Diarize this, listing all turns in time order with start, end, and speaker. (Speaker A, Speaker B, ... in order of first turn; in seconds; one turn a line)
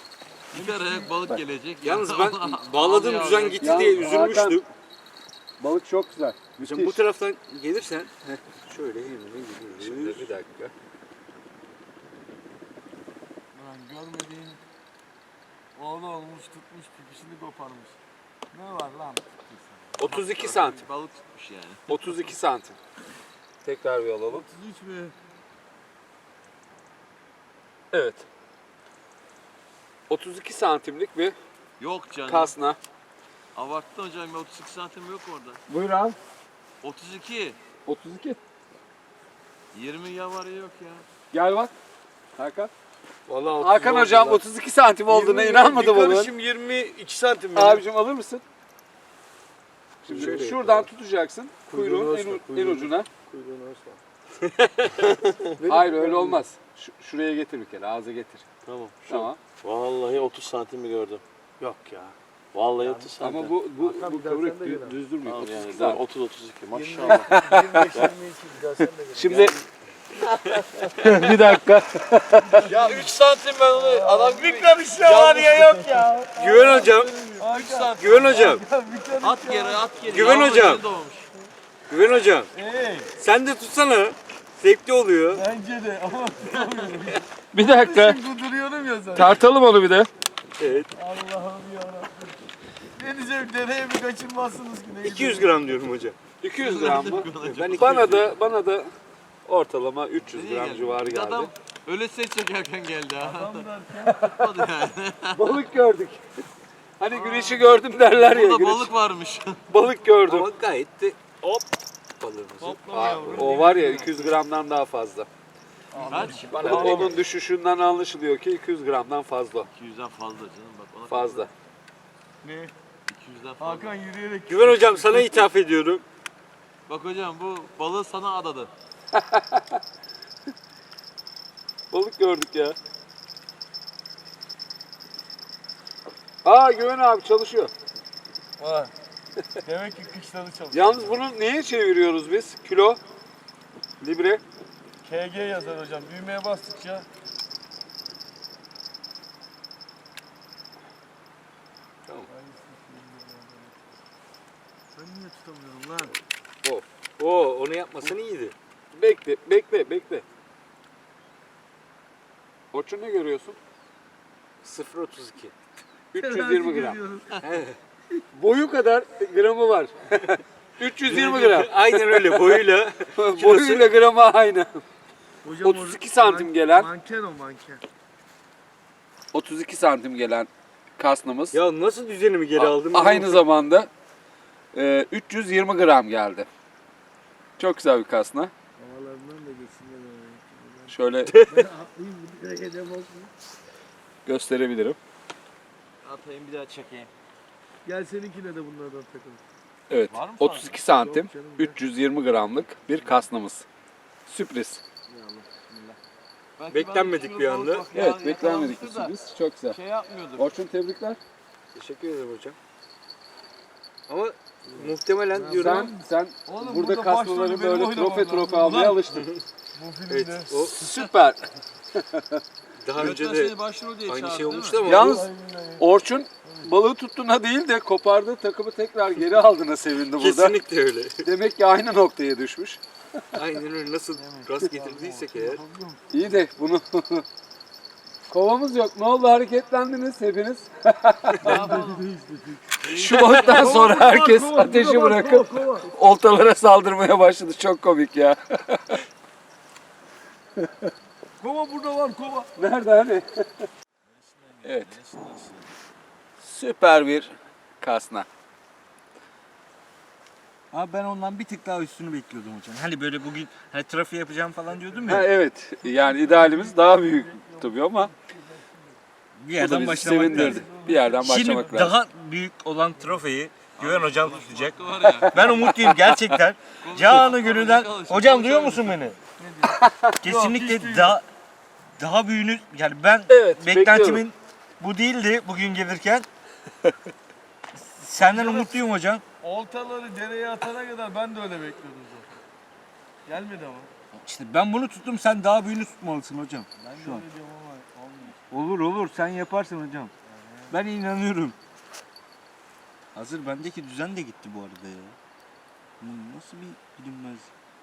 Speaker A: 0.5-4.5
Speaker B: 0.5-1.1
Speaker C: 1.8-4.7
Speaker D: 3.6-4.6
Speaker D: 5.6-7.0
Speaker C: 6.6-10.4
Speaker D: 9.8-10.7
Speaker B: 13.5-14.6
Speaker B: 15.8-18.0
Speaker B: 18.5-19.6
Speaker D: 20.0-20.9
Speaker A: 20.0-21.8
Speaker D: 21.9-22.8
Speaker D: 23.6-24.4
Speaker B: 24.3-25.1
Speaker D: 27.9-28.2
Speaker D: 30.1-31.4
Speaker A: 31.8-32.5
Speaker D: 32.2-32.8
Speaker A: 33.5-35.6
Speaker D: 35.7-36.2
Speaker A: 36.8-37.6
Speaker D: 37.9-38.4
Speaker A: 39.7-41.0
Speaker D: 41.3-41.7
Speaker D: 42.4-42.7
Speaker B: 43.3-44.4
Speaker D: 43.6-46.3
Speaker B: 45.1-47.8
Speaker D: 47.5-48.4
Speaker D: 50.0-53.1
Speaker C: 50.1-50.9
Speaker B: 50.1-50.5
Speaker B: 51.6-54.0
Speaker C: 54.6-54.9
Speaker B: 55.3-56.4
Speaker D: 55.6-58.4
Speaker B: 58.6-59.3
Speaker D: 59.0-59.4
Speaker E: 59.6-61.2
Speaker B: 61.6-62.1
Speaker C: 61.6-62.0
Speaker E: 62.5-63.5
Speaker B: 62.8-65.0
Speaker D: 63.2-66.0
Speaker E: 65.2-68.1
Speaker B: 66.7-69.6
Speaker D: 67.0-68.0
Speaker D: 69.1-69.6
Speaker D: 70.9-72.7
Speaker B: 72.5-80.0
Speaker A: 72.7-73.0
Speaker E: 72.9-74.9
Speaker A: 75.0-76.0
Speaker C: 76.3-77.2
Speaker A: 77.4-77.8
Speaker C: 77.9-78.6
Speaker A: 79.2-81.3
Speaker C: 80.1-80.8
Speaker C: 81.9-82.5
Speaker B: 82.5-83.1
Speaker C: 83.2-85.4
Speaker B: 85.3-89.4
Speaker D: 87.5-88.2
Speaker D: 89.1-90.1
Speaker C: 90.6-90.9
Speaker B: 90.9-92.3
Speaker B: 93.0-95.9
Speaker C: 95.0-96.2
Speaker D: 96.4-98.9
Speaker A: 96.6-98.3
Speaker C: 97.4-98.1
Speaker D: 99.5-101.5
Speaker A: 100.3-105.5
Speaker B: 103.2-104.1
Speaker D: 104.2-104.6
Speaker D: 105.3-106.2
Speaker D: 107.0-108.9
Speaker A: 107.1-109.6
Speaker D: 109.7-110.5
Speaker C: 110.2-111.6
Speaker C: 112.2-113.5
Speaker B: 112.6-114.2
Speaker D: 112.9-115.3
Speaker B: 115.9-117.2
Speaker A: 116.0-117.1
Speaker C: 116.1-117.2
Speaker D: 116.6-119.7
Speaker A: 119.6-121.5
Speaker D: 121.1-121.5
Speaker B: 122.4-122.7
Speaker A: 123.1-123.9
Speaker B: 123.6-125.5
Speaker C: 124.5-126.0
Speaker A: 126.9-128.7
Speaker D: 129.1-129.8
Speaker D: 131.9-132.8
Speaker D: 136.4-137.7
Speaker B: 138.6-138.9
Speaker B: 139.6-141.2
Speaker D: 140.7-143.0
Speaker D: 144.0-144.4
Speaker B: 145.0-147.1
Speaker B: 152.3-153.8
Speaker B: 154.9-156.1
Speaker C: 157.2-158.5
Speaker D: 158.9-160.2
Speaker D: 162.7-163.6
Speaker C: 164.6-165.5
Speaker D: 166.1-167.0
Speaker B: 166.2-167.6
Speaker C: 167.4-167.8
Speaker D: 168.3-174.8
Speaker C: 171.0-173.9
Speaker B: 175.4-177.8
Speaker D: 175.6-176.9
Speaker D: 179.3-181.6
Speaker C: 181.5-183.4
Speaker D: 182.5-183.9
Speaker D: 184.7-186.5
Speaker D: 187.6-188.5
Speaker B: 188.8-190.9
Speaker D: 190.9-191.3
Speaker C: 191.2-191.6
Speaker B: 191.4-193.3
Speaker D: 194.2-195.0
Speaker A: 196.0-197.1
Speaker B: 197.8-199.4
Speaker D: 199.9-203.6
Speaker A: 200.1-200.7
Speaker B: 200.4-201.8
Speaker D: 204.3-204.8
Speaker B: 205.1-205.9
Speaker A: 206.6-207.0
Speaker B: 206.6-209.1
Speaker C: 206.7-207.9
Speaker D: 207.9-209.8
Speaker B: 209.7-210.5
Speaker D: 210.4-211.2
Speaker C: 211.7-212.6
Speaker C: 214.1-215.9
Speaker B: 214.7-215.9
Speaker D: 215.5-219.2
Speaker B: 216.5-219.1
Speaker B: 219.7-220.5
Speaker C: 220.1-220.8
Speaker D: 220.5-222.4
Speaker C: 222.8-225.3
Speaker A: 222.9-224.8
Speaker B: 224.8-225.9
Speaker D: 224.8-230.6
Speaker B: 226.4-226.7
Speaker C: 230.2-231.3
Speaker D: 231.2-232.8
Speaker C: 233.3-235.6
Speaker B: 234.1-236.4
Speaker D: 236.1-237.2
Speaker D: 238.3-241.8
Speaker A: 241.3-242.1
Speaker B: 241.4-242.8
Speaker A: 242.8-243.7
Speaker D: 242.9-249.0
Speaker C: 243.1-243.7
Speaker B: 243.4-245.9
Speaker B: 251.4-252.5
Speaker D: 252.6-253.7
Speaker E: 254.1-255.7
Speaker D: 254.6-254.9
Speaker D: 256.4-258.3
Speaker C: 260.7-265.3
Speaker B: 264.9-265.2
Speaker D: 265.1-268.1
Speaker B: 265.8-269.0
Speaker C: 269.4-270.6
Speaker D: 269.6-272.0
Speaker B: 269.9-271.6
Speaker C: 271.2-279.1
Speaker A: 273.8-275.6
Speaker D: 275.5-276.3
Speaker A: 276.8-279.2
Speaker B: 279.4-281.2
Speaker D: 279.8-280.1
Speaker C: 280.2-281.2
Speaker C: 282.0-286.2
Speaker D: 283.3-284.2
Speaker C: 287.8-289.2
Speaker B: 288.2-288.8
Speaker B: 289.4-292.3
Speaker B: 293.2-293.9
Speaker C: 294.1-297.2
Speaker B: 296.8-298.4
Speaker C: 298.5-300.1
Speaker B: 300.3-300.8
Speaker C: 300.7-301.6
Speaker C: 303.1-305.1
Speaker C: 306.0-307.5